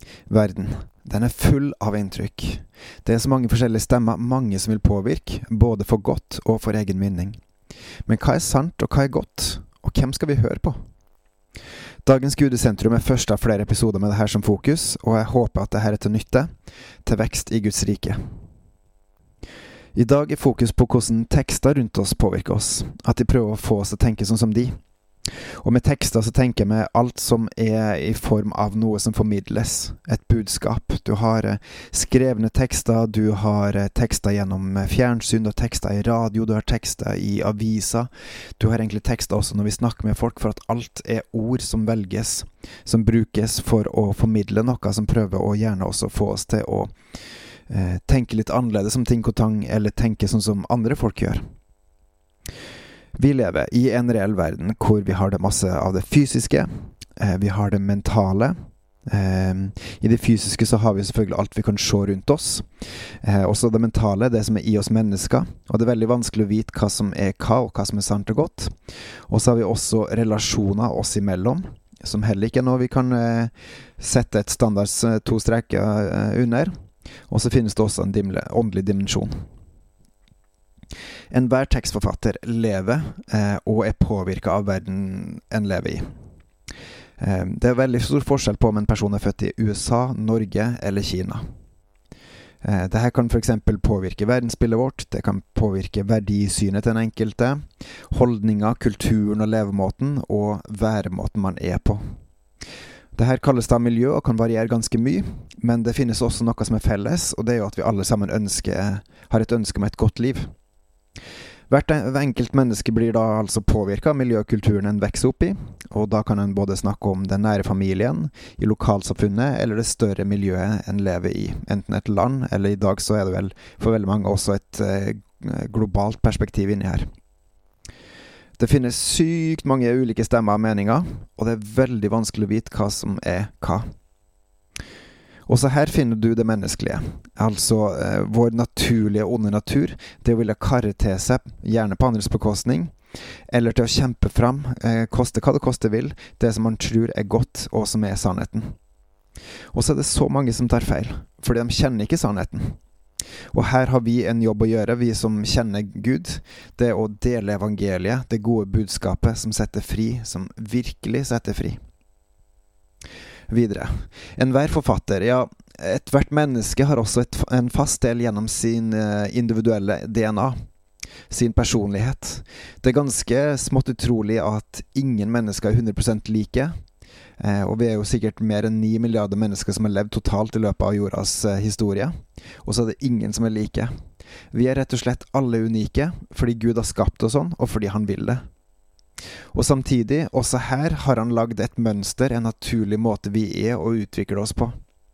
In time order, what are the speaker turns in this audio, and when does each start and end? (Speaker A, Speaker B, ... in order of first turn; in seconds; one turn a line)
Speaker A: 0.3-7.4
Speaker A: 8.1-10.8
Speaker A: 12.1-16.5
Speaker A: 17.1-18.2
Speaker A: 19.9-24.8
Speaker A: 25.6-46.9
Speaker A: 47.7-51.4
Speaker A: 53.2-58.5
Speaker A: 59.1-62.7
Speaker A: 63.2-68.7
Speaker A: 69.3-76.7
Speaker A: 77.3-79.3
Speaker A: 81.3-86.1
Speaker A: 87.2-91.4
Speaker A: 92.6-102.0
Speaker A: 103.2-110.5
Speaker A: 111.7-127.1
Speaker A: 128.6-133.9
Speaker A: 135.5-142.9
Speaker A: 143.5-148.7
Speaker A: 149.7-152.8
Speaker A: 153.5-161.8
Speaker A: 163.5-170.6
Speaker A: 171.3-176.7
Speaker A: 177.4-183.9
Speaker A: 184.5-188.4
Speaker A: 189.5-194.8